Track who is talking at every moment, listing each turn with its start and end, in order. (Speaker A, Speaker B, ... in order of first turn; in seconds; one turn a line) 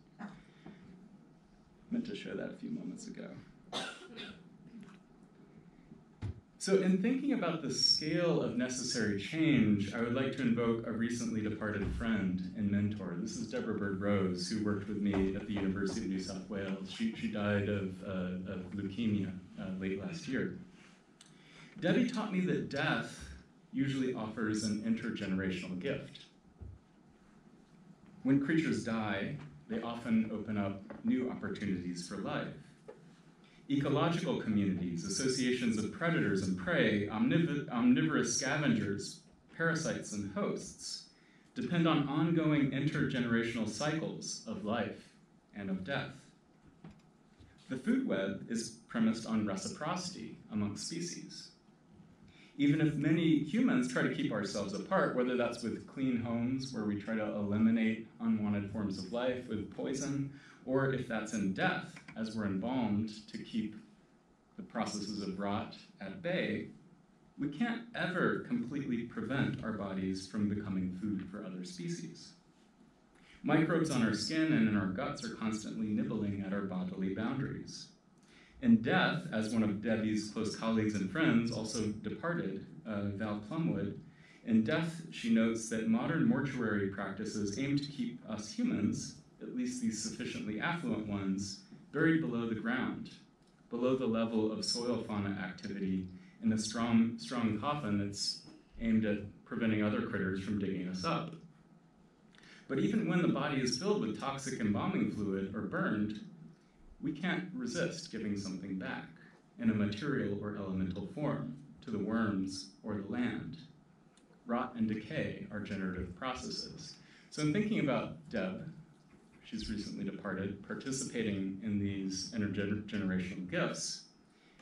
Speaker A: 1.9-3.4
Speaker A: 6.6-20.6
Speaker A: 21.8-26.3
Speaker A: 28.2-32.7
Speaker A: 33.7-46.3
Speaker A: 47.7-51.5
Speaker A: 52.6-63.8
Speaker A: 64.5-66.7
Speaker A: 67.4-72.3
Speaker A: 73.4-77.9
Speaker A: 78.6-101.4
Speaker A: 102.7-106.2
Speaker A: 107.0-113.6
Speaker A: 114.5-118.7
Speaker A: 119.4-124.0